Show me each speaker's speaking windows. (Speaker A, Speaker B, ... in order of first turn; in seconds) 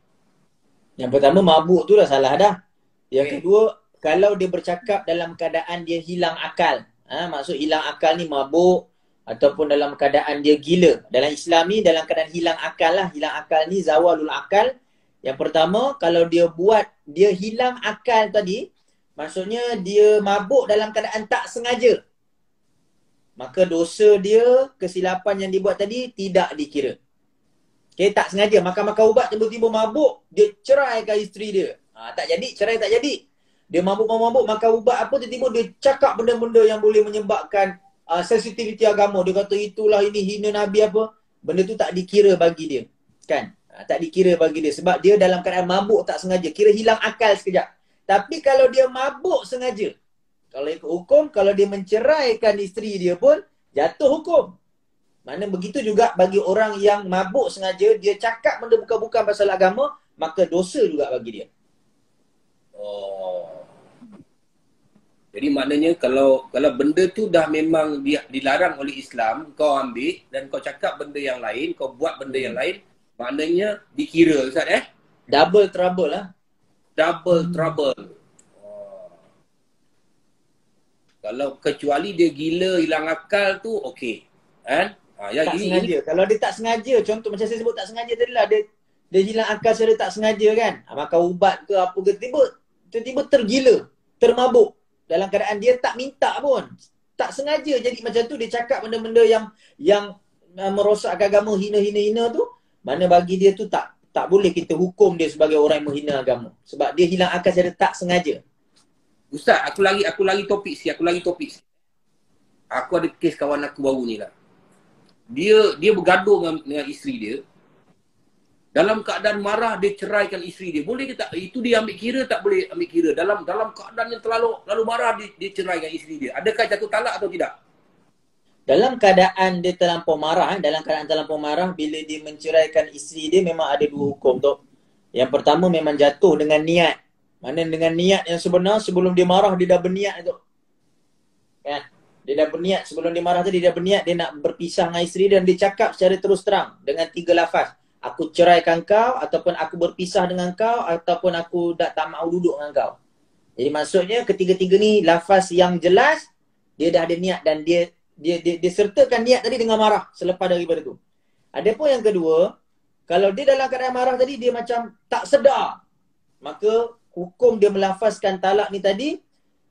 Speaker A: 1.0-2.6, 3.1-14.7, 15.2-18.7, 19.2-22.0, 23.4-26.9, 28.0-33.2, 33.7-49.9, 50.5-54.5, 55.2-61.5, 72.3-72.6, 75.3-76.3, 85.4-96.7, 97.2-108.4, 128.7-134.6, 135.1-140.4, 141.6-152.9, 153.6-156.3, 156.8-161.0, 161.6-162.5, 163.1-165.8, 166.4-169.1
Speaker B: 62.8-63.6, 65.3-74.8, 77.0-78.1, 78.6-79.1, 81.2-85.9, 109.3-111.6, 112.7-114.3, 115.3-117.4, 118.7-127.5